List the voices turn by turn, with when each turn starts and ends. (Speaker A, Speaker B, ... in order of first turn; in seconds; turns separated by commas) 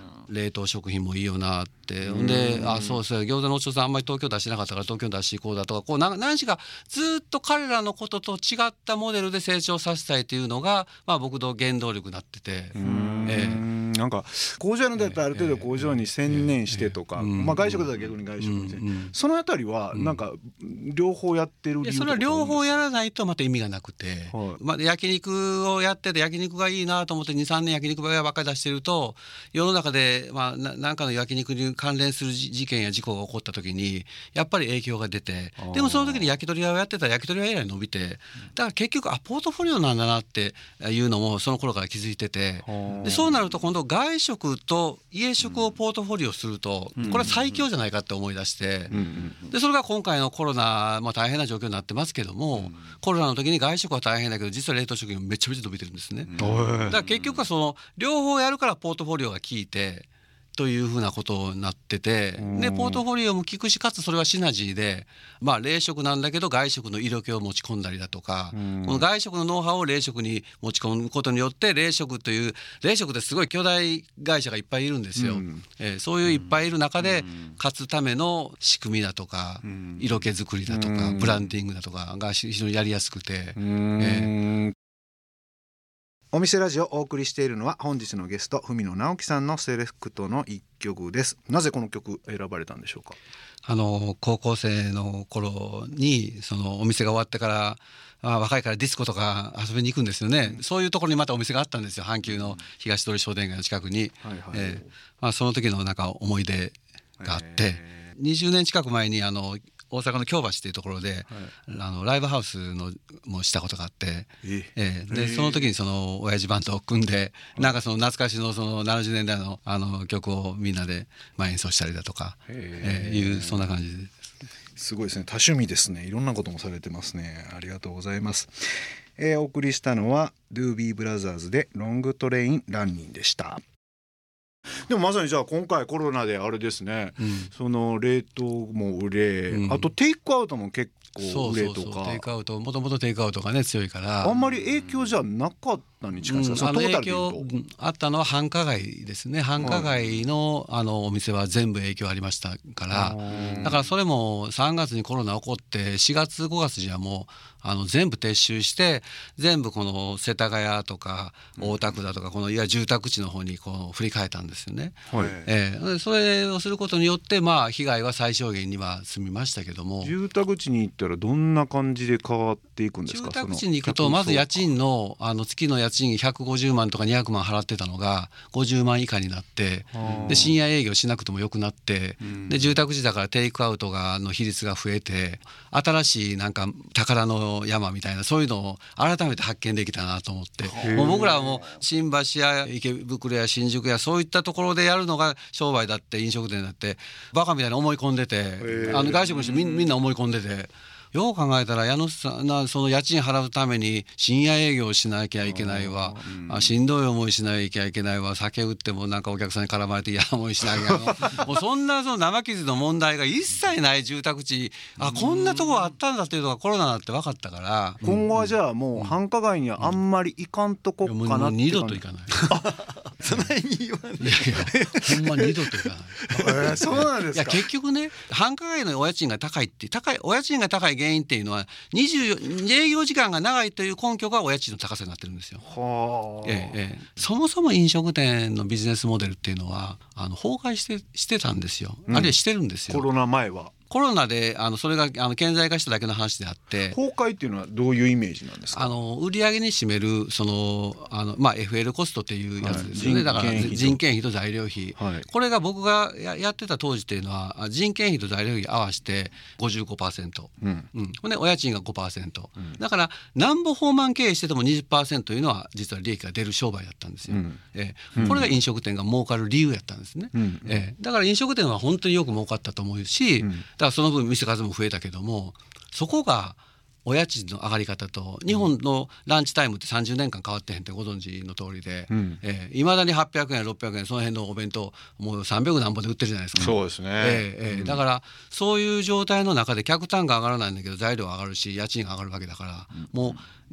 Speaker A: 0.3-13.6, Speaker B: 2.0-3.0, Speaker B: 12.7-22.6, Speaker C: 12.9-13.2, Speaker A: 15.0-19.1, Speaker A: 19.9-20.2, Speaker A: 21.8-84.3, Speaker B: 24.3-24.6, Speaker B: 35.6-36.3, Speaker B: 42.6-43.4, Speaker B: 47.0-47.4, Speaker B: 48.9-49.3, Speaker B: 56.4-57.0, Speaker C: 56.4-57.2, Speaker B: 62.4-63.0, Speaker B: 68.5-69.0, Speaker B: 75.2-75.6, Speaker B: 79.6-80.1, Speaker B: 80.7-81.5, Speaker B: 83.6-84.7, Speaker B: 86.3-93.2, Speaker A: 93.7-124.1, Speaker B: 102.3-102.5, Speaker B: 104.2-104.8, Speaker B: 107.2-107.9, Speaker B: 114.4-115.7, Speaker B: 122.5-123.7, Speaker B: 124.8-133.6, Speaker B: 134.8-142.2, Speaker A: 137.2-137.5, Speaker A: 139.5-139.9, Speaker A: 141.2-144.3, Speaker B: 144.2-147.4, Speaker A: 146.3-170.1, Speaker B: 149.6-149.9, Speaker B: 152.9-153.9, Speaker B: 161.6-161.9, Speaker B: 165.1-165.5, Speaker B: 170.0-174.7, Speaker A: 173.1-219.2, Speaker B: 179.9-180.6, Speaker C: 190.7-191.0, Speaker B: 190.7-191.6, Speaker B: 198.6-199.4, Speaker C: 199.1-199.8, Speaker B: 205.4-206.7, Speaker B: 215.0-215.4, Speaker B: 218.0-222.0, Speaker A: 221.0-222.5, Speaker C: 222.5-225.4, Speaker A: 224.2-235.6, Speaker B: 226.3-227.6, Speaker B: 235.6-236.7, Speaker A: 236.4-243.1, Speaker B: 242.1-242.4, Speaker B: 242.9-243.7, Speaker A: 243.9-247.0, Speaker B: 246.9-249.0, Speaker A: 248.7-293.4, Speaker B: 252.6-254.0, Speaker B: 255.0-255.3, Speaker B: 267.3-267.6, Speaker B: 268.1-268.5, Speaker B: 270.3-270.8, Speaker B: 282.1-282.4, Speaker B: 286.6-288.0